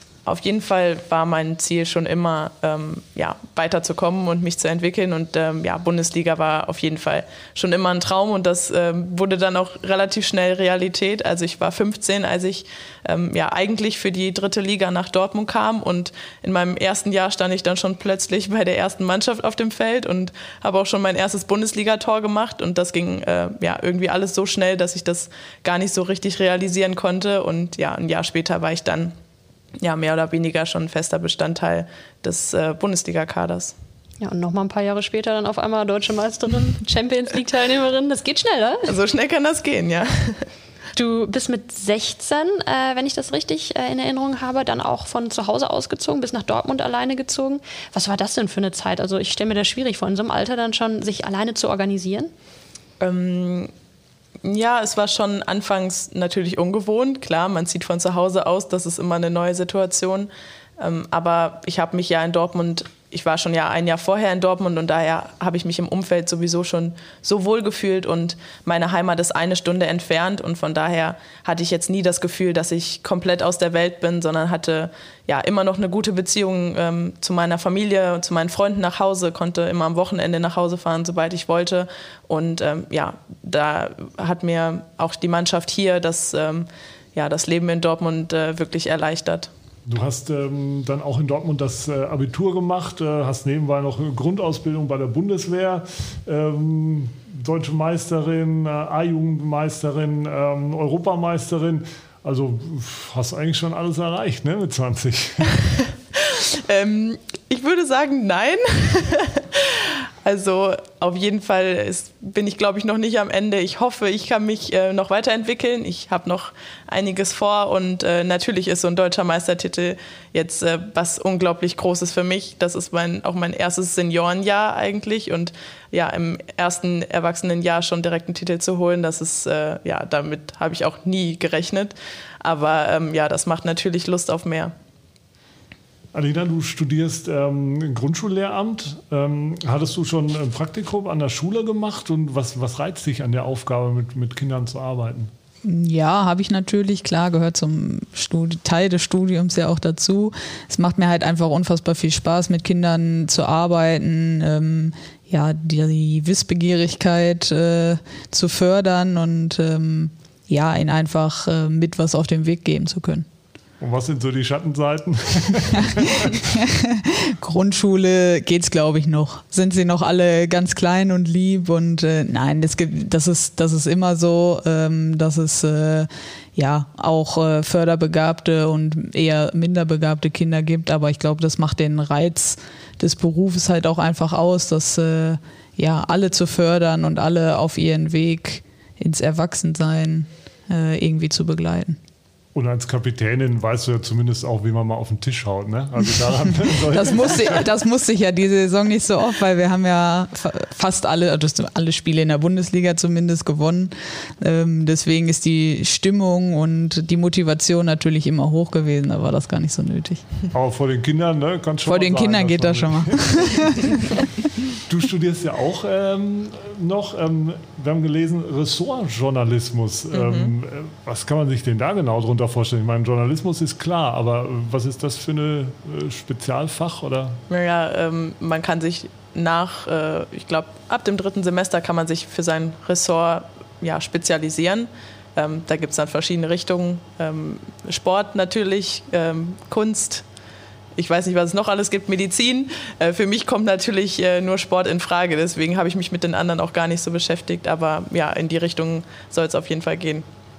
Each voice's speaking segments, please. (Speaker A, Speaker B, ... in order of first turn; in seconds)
Speaker A: 0.3-29.1, 29.8-33.8, 38.9-40.5, 53.0-53.7, 54.4-89.5, 106.1-134.7, 220.1-220.5, 227.5-240.2, 240.9-250.3
Speaker B: 34.2-38.9, 41.0-52.3
Speaker C: 89.9-105.6, 136.1-145.3, 163.8-166.4, 192.6-197.7, 210.5-214.1, 214.8-227.4
Speaker D: 145.6-163.3, 166.2-192.0, 196.9-210.2, 211.9-214.2